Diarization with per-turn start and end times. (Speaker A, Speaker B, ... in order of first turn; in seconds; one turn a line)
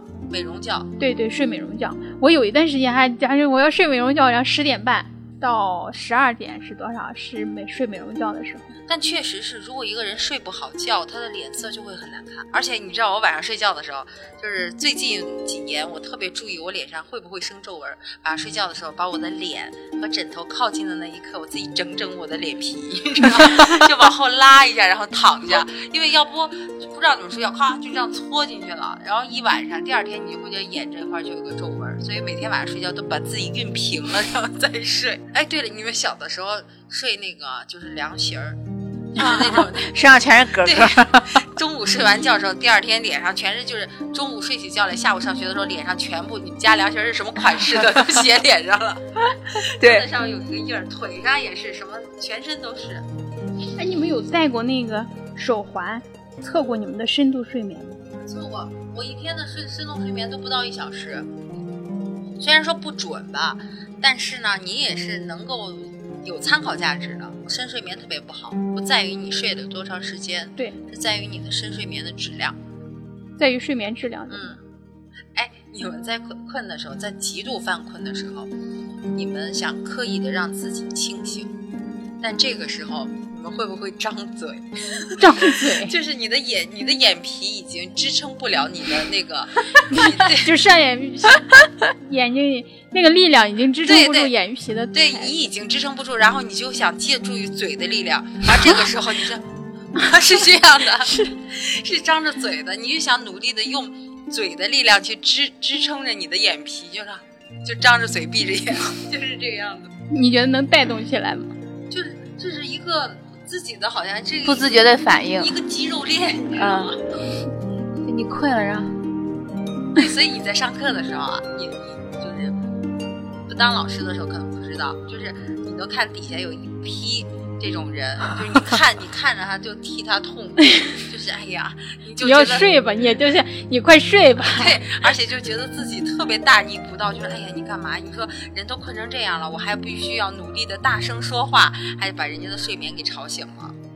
Speaker A: 0.3-0.9
Speaker B: 1.0-8.7
Speaker A: 8.9-38.6
Speaker A: 39.1-39.9
Speaker C: 39.1-41.4
Speaker A: 40.6-53.0
Speaker C: 49.6-50.1
Speaker B: 53.8-58.0
Speaker A: 58.2-61.3
Speaker A: 62.4-72.6
Speaker B: 73.4-74.5
Speaker A: 74.3-74.6
Speaker A: 75.3-78.5
Speaker A: 79.1-81.6
Speaker A: 82.2-90.5
Speaker B: 85.2-85.9
Speaker B: 89.8-95.3
Speaker A: 93.8-94.3
Speaker A: 94.9-99.4
Speaker A: 99.9-109.9
Speaker B: 101.0-101.3
Speaker B: 110.1-111.5
Speaker A: 111.9-114.7
Speaker C: 114.4-115.5
Speaker A: 115.4-117.0
Speaker C: 116.6-116.9
Speaker C: 118.0-119.0
Speaker A: 119.9-122.6
Speaker A: 123.5-132.7
Speaker B: 132.2-134.8
Speaker A: 134.5-143.7